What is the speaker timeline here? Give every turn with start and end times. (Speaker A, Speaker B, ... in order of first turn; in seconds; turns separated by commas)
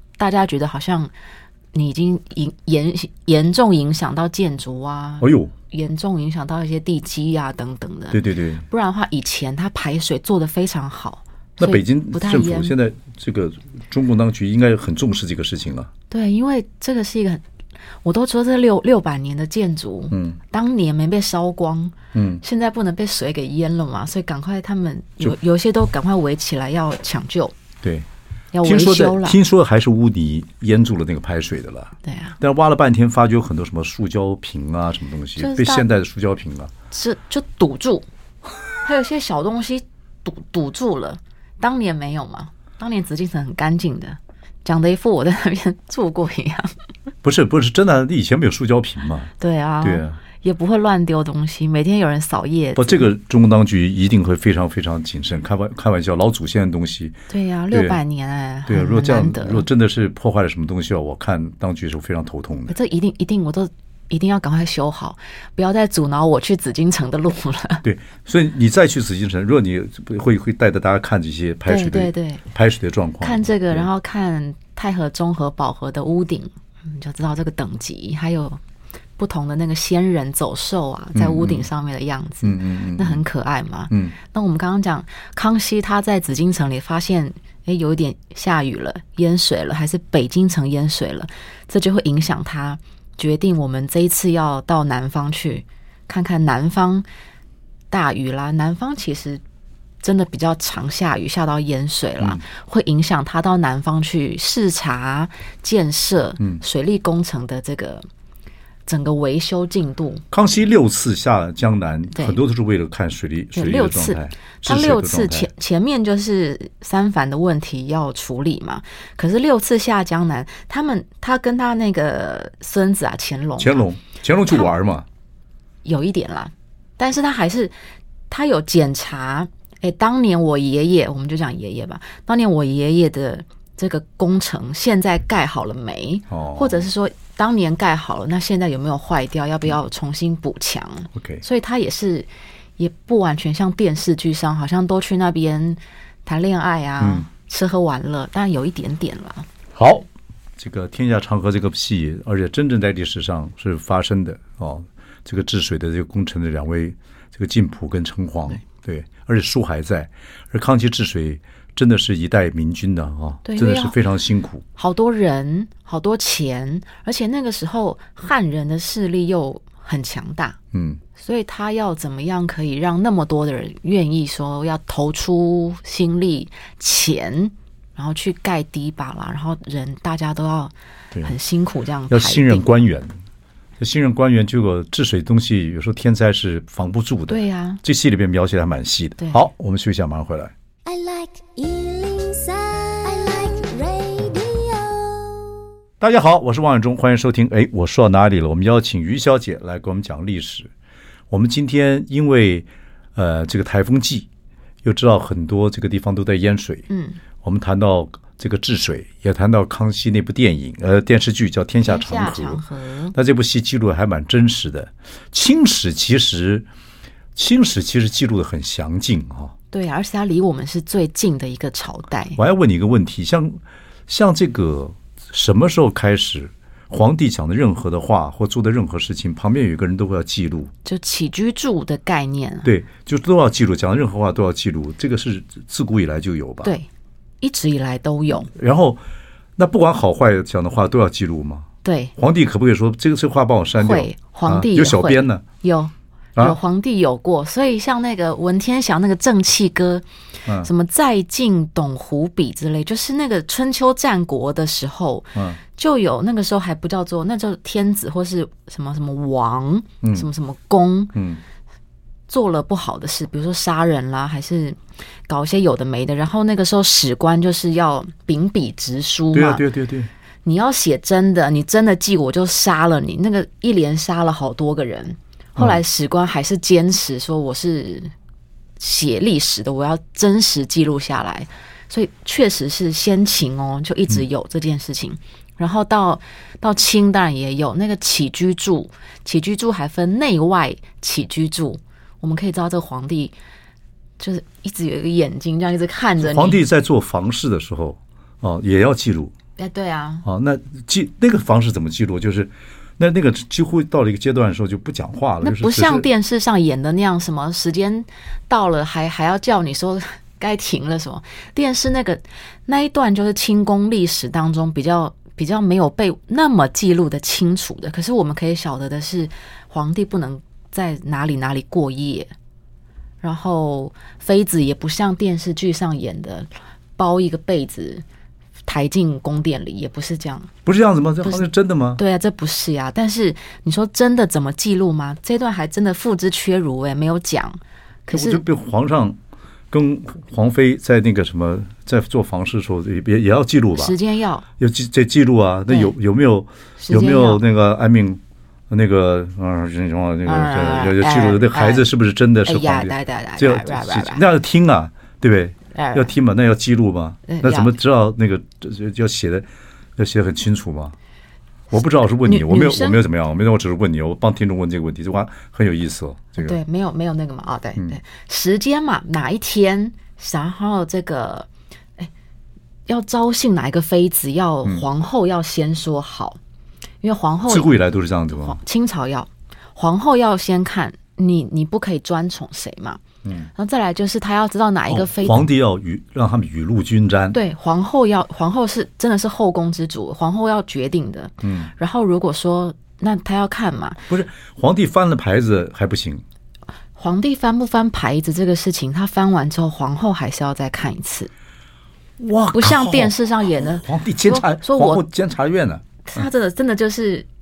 Speaker A: 0.2-1.1, Speaker A: 1.7-12.7, Speaker B: 5.2-5.5, Speaker B: 8.1-8.6, Speaker B: 11.6-15.9, Speaker A: 16.1-17.4, Speaker A: 18.0-27.5, Speaker B: 20.1-20.4, Speaker B: 22.1-22.4, Speaker B: 27.8-28.1, Speaker A: 28.5-29.4, Speaker B: 28.6-36.7, Speaker A: 32.0-32.4, Speaker A: 35.4-35.8, Speaker A: 36.9-38.0, Speaker A: 38.8-46.7, Speaker B: 47.2-49.3, Speaker A: 49.4-53.1, Speaker B: 49.8-50.2, Speaker B: 52.8-58.0, Speaker A: 57.3-59.6, Speaker B: 58.7-62.7, Speaker A: 62.7-67.8, Speaker B: 67.8-73.8, Speaker A: 71.7-72.4, Speaker A: 73.2-78.6, Speaker A: 79.2-97.0, Speaker B: 81.1-81.7, Speaker B: 82.4-83.2, Speaker A: 97.9-99.4, Speaker A: 100.0-108.0, Speaker A: 108.9-110.2, Speaker B: 110.3-115.5, Speaker A: 112.1-112.4, Speaker A: 113.5-123.8, Speaker B: 123.6-125.0, Speaker A: 125.8-127.7, Speaker A: 128.3-149.5, Speaker B: 136.3-136.9, Speaker B: 141.1-141.4, Speaker B: 147.0-147.2, Speaker B: 149.7-150.1, Speaker B: 150.6-164.6, Speaker A: 163.4-163.9, Speaker A: 164.8-170.6, Speaker B: 170.7-171.0, Speaker A: 171.2-182.7, Speaker B: 182.1-183.1, Speaker B: 183.8-190.5, Speaker A: 187.3-187.8, Speaker C: 190.8-195.6, Speaker B: 196.0-200.7, Speaker B: 201.3-204.3, Speaker B: 204.8-206.8, Speaker A: 206.9-207.2, Speaker B: 207.4-212.6, Speaker A: 211.8-213.2, Speaker B: 213.1-216.7, Speaker B: 217.3-219.5, Speaker A: 219.7-222.4, Speaker B: 222.3-230.7, Speaker A: 230.8-232.7, Speaker B: 232.6-236.8, Speaker A: 237.4-238.5, Speaker B: 238.4-239.0, Speaker B: 239.6-245.4, Speaker A: 241.8-242.1, Speaker A: 243.8-250.0, Speaker A: 250.6-261.1, Speaker B: 261.1-261.4, Speaker A: 262.3-269.6, Speaker B: 269.3-270.1, Speaker A: 270.4-278.1, Speaker A: 278.8-293.3, Speaker A: 294.2-296.6, Speaker B: 296.2-299.3, Speaker A: 299.6-300.2, Speaker B: 300.2-306.1, Speaker A: 305.4-322.3, Speaker A: 323.2-328.0, Speaker A: 328.7-330.5, Speaker B: 330.6-332.0, Speaker A: 331.2-338.4, Speaker B: 338.1-339.2, Speaker B: 339.7-343.9, Speaker A: 343.8-344.4, Speaker B: 344.6-360.9, Speaker A: 346.8-347.4, Speaker A: 350.2-351.9, Speaker A: 352.4-354.2, Speaker A: 355.7-356.1, Speaker A: 357.2-357.7, Speaker B: 361.7-366.6, Speaker A: 361.8-363.0, Speaker A: 366.4-372.1, Speaker A: 372.9-376.4, Speaker A: 377.0-377.7, Speaker B: 377.5-378.6, Speaker A: 378.4-383.0, Speaker B: 383.2-383.5, Speaker A: 383.5-385.5, Speaker B: 384.9-387.4, Speaker A: 387.3-394.0, Speaker B: 391.4-391.7, Speaker B: 394.1-396.2, Speaker A: 397.0-401.3, Speaker B: 402.2-405.8, Speaker A: 402.5-405.0, Speaker A: 406.0-407.2